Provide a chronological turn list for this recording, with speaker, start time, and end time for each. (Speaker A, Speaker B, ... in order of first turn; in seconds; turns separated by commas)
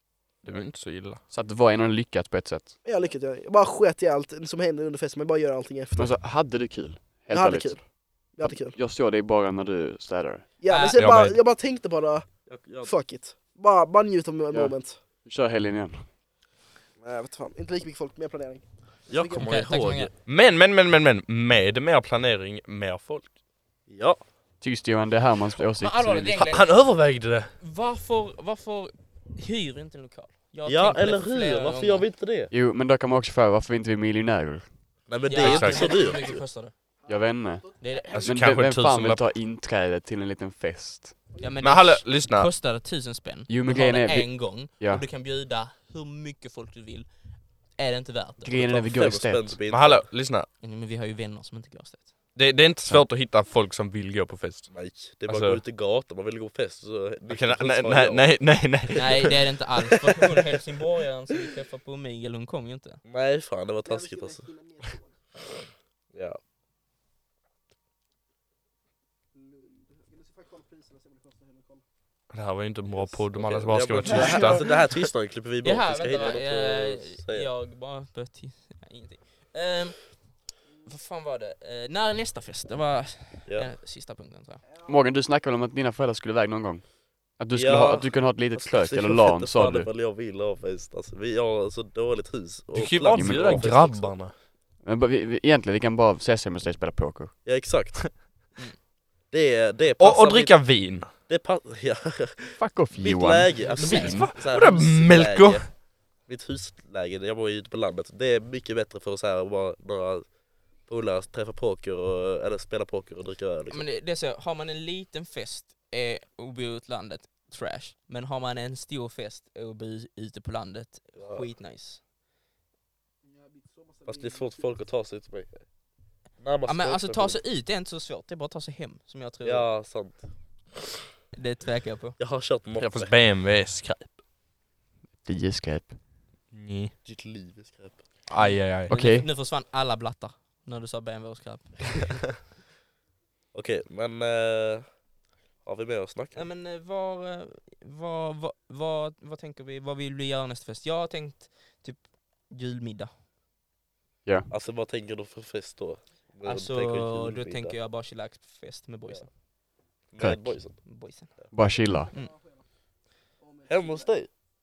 Speaker A: 0.4-1.2, Speaker B: 1.3-2.7, Speaker C: 2.8-6.2, Speaker B: 6.0-10.5, Speaker C: 7.3-8.8, Speaker C: 10.6-15.0, Speaker D: 10.7-11.0, Speaker A: 10.9-11.4, Speaker E: 12.5-12.9, Speaker B: 14.5-16.0, Speaker C: 17.0-19.4, Speaker E: 19.1-20.1, Speaker D: 19.4-20.1, Speaker A: 20.2-23.3, Speaker E: 23.9-24.2, Speaker B: 24.6-26.6, Speaker D: 25.7-26.8, Speaker A: 26.4-27.5, Speaker D: 27.6-32.0, Speaker E: 30.6-32.5, Speaker B: 32.5-34.6, Speaker E: 35.1-36.4, Speaker D: 35.3-36.7, Speaker A: 35.4-35.9, Speaker B: 37.1-41.2, Speaker D: 37.8-38.3, Speaker A: 38.1-39.2, Speaker D: 41.4-48.6, Speaker A: 41.6-42.5, Speaker B: 43.5-45.0, Speaker B: 48.4-49.5, Speaker E: 48.5-50.1, Speaker A: 49.7-50.5, Speaker D: 50.6-52.2, Speaker A: 52.3-54.8, Speaker E: 54.7-59.0, Speaker A: 55.3-55.6, Speaker A: 57.3-59.3, Speaker D: 59.0-63.0, Speaker E: 63.0-64.5, Speaker C: 63.9-65.1, Speaker E: 66.1-66.4, Speaker C: 69.3-71.8, Speaker A: 72.3-74.7, Speaker E: 72.9-77.5, Speaker D: 74.1-74.5, Speaker D: 75.6-84.6, Speaker B: 84.8-89.9, Speaker E: 87.5-94.2, Speaker A: 92.7-94.3, Speaker B: 93.1-93.8, Speaker B: 94.8-97.3, Speaker E: 97.4-98.2, Speaker E: 99.3-113.8, Speaker A: 100.0-101.1, Speaker B: 102.6-104.3, Speaker D: 103.6-104.2, Speaker A: 103.8-105.7, Speaker D: 113.7-122.0, Speaker E: 121.2-121.5, Speaker C: 123.5-124.4, Speaker E: 124.0-125.7, Speaker E: 126.3-127.4, Speaker D: 126.7-129.7, Speaker E: 129.4-130.7, Speaker D: 131.3-132.2, Speaker E: 132.2-133.1, Speaker A: 132.8-134.1, Speaker B: 135.2-135.9, Speaker A: 136.5-136.9, Speaker E: 137.0-138.1, Speaker A: 138.3-138.9, Speaker D: 138.3-142.2, Speaker B: 138.9-139.3, Speaker E: 143.5-145.0, Speaker E: 145.6-146.4, Speaker D: 146.3-153.1, Speaker E: 154.5-157.7, Speaker D: 156.4-159.3, Speaker E: 160.1-160.8, Speaker B: 160.2-160.8, Speaker D: 160.8-161.5, Speaker B: 161.5-162.1, Speaker C: 163.4-164.0, Speaker E: 163.7-164.3